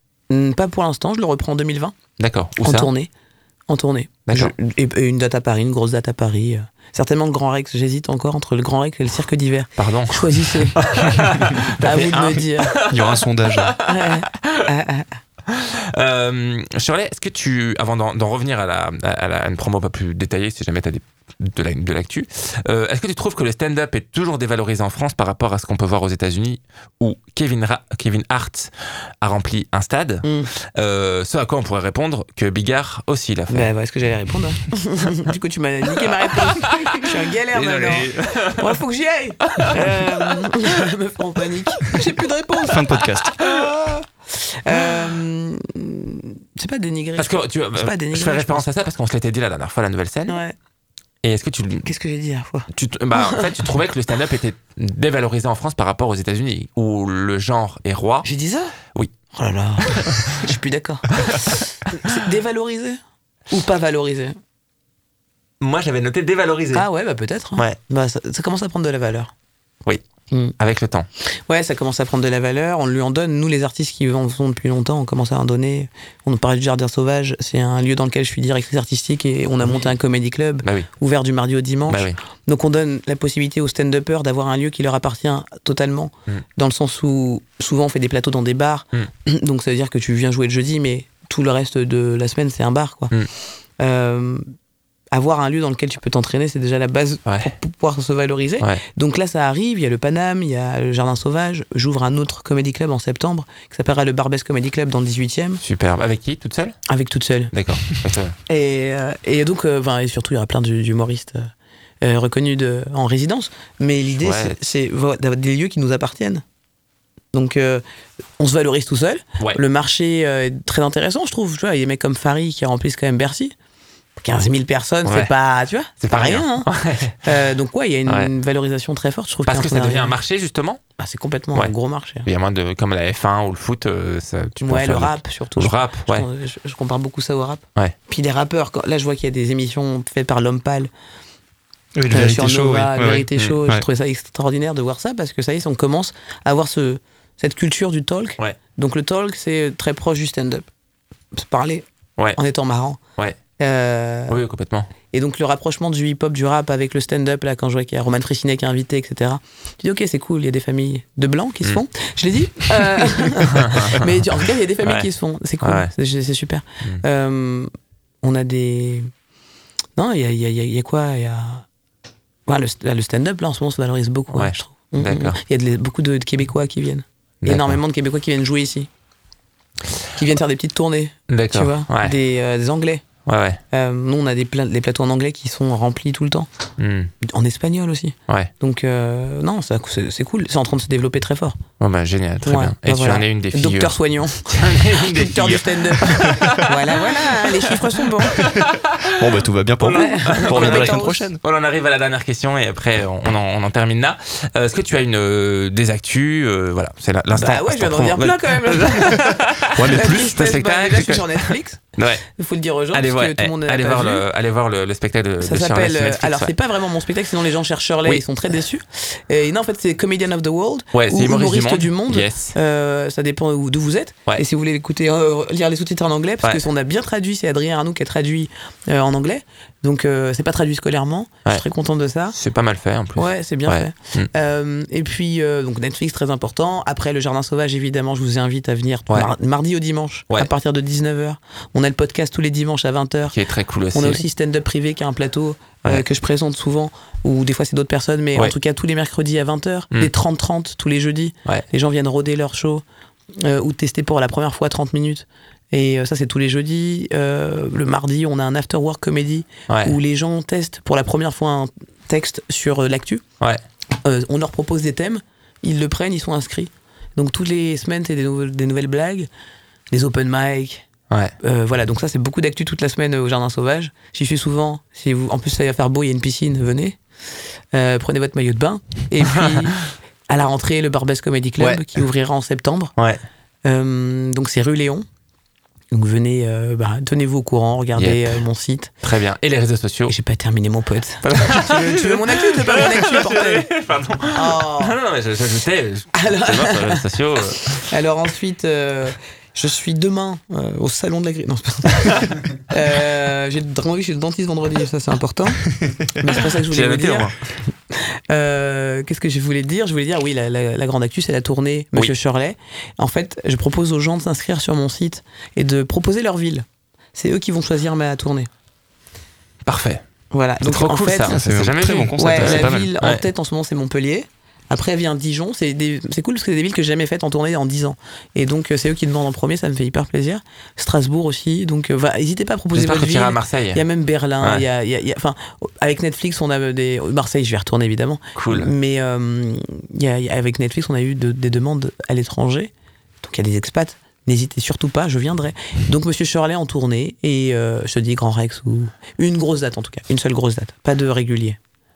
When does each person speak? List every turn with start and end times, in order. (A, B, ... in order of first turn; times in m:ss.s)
0:00.3-0:02.0 A
0:02.2-0:02.9 B
0:02.6-0:03.1 A
0:03.7-0:12.8 A
0:04.3-0:04.5 B
0:09.8-0:14.7 B
0:12.9-0:13.8 C
0:13.8-0:15.1 A
0:15.5-0:33.7 B
0:30.2-0:30.5 A
0:33.5-0:48.7 A
0:36.0-0:38.8 B
0:39.5-0:40.5 B
0:42.6-0:43.3 C
0:47.2-0:50.4 B
0:50.3-0:50.5 A
0:51.2-0:51.9 B
0:51.8-0:53.7 A
0:52.7-0:58.2 B
0:58.2-0:58.7 A
0:59.3-1:03.0 A
0:59.8-1:00.4 B
1:03.5-1:04.4 A
1:05.6-1:06.8 B
1:06.7-1:09.3 A
1:10.6-1:11.1 B
1:11.5-1:33.1 A
1:19.6-1:19.9 B
1:20.6-1:20.9 B
1:21.9-1:22.2 B
1:33.8-1:34.4 A
1:35.1-1:45.6 A
1:37.2-1:37.5 B
1:45.6-1:46.8 B
1:46.9-1:47.5 A
1:47.5-1:48.3 B
1:48.5-1:51.5 A
1:52.0-1:56.4 A
1:54.2-1:54.6 B
1:57.3-1:57.8 A
1:58.4-2:03.5 A
2:04.2-2:06.7 A
2:05.0-2:05.3 B
2:06.0-2:07.2 B
2:07.2-2:10.2 A
2:09.5-2:10.8 B
2:11.0-2:12.3 A
2:12.2-2:16.2 B
2:14.6-2:20.9 A
2:22.0-2:23.8 C
2:22.1-2:30.7 A
2:31.3-2:33.0 A
2:33.6-2:34.4 A
2:34.3-2:34.9 B
2:35.1-2:47.7 A
2:43.4-2:44.1 B
2:45.6-2:45.9 B
2:48.2-2:49.1 A
2:50.0-2:51.6 A
2:52.5-2:58.9 A
2:54.3-2:55.4 B
2:57.4-2:57.8 B
3:00.1-3:03.0 A
3:01.3-3:02.2 B
3:03.2-3:03.6 B
3:03.7-3:06.5 A
3:06.8-3:07.1 B
3:07.2-3:11.6 A
3:11.8-3:32.2 B
3:12.4-3:18.4 A
3:18.4-3:21.4 C
3:19.9-3:21.3 A
3:27.3-3:29.3 A
3:29.7-3:30.4 C
3:29.9-3:34.2 A
3:32.9-3:36.5 B
3:35.4-3:52.4 A
3:40.9-3:42.5 B
3:52.3-3:54.3 B
3:53.2-4:03.4 A
4:03.3-4:04.2 B
4:03.9-4:12.8 A
4:13.4-4:23.2 A
4:19.7-4:20.0 B
4:24.0-4:29.3 A
4:29.9-4:30.8 A
4:31.4-4:37.0 A
4:37.7-4:42.9 A
4:39.3-4:39.7 B
4:43.0-4:43.2 B
4:43.6-4:45.0 A
4:45.9-4:48.9 A
4:48.0-4:48.4 B
4:49.0-4:50.1 B
4:50.1-4:53.7 A
4:51.2-4:57.9 B
4:54.3-4:55.0 A
4:56.1-4:57.0 A
4:57.9-5:07.3 A
5:06.4-5:07.3 B
5:07.9-5:18.5 A
5:19.6-5:20.0 B
5:20.3-5:21.4 A
5:20.6-5:23.2 B
5:21.3-5:22.9 C
5:22.2-5:51.6 A
5:32.7-5:33.8 B
5:38.4-5:38.7 B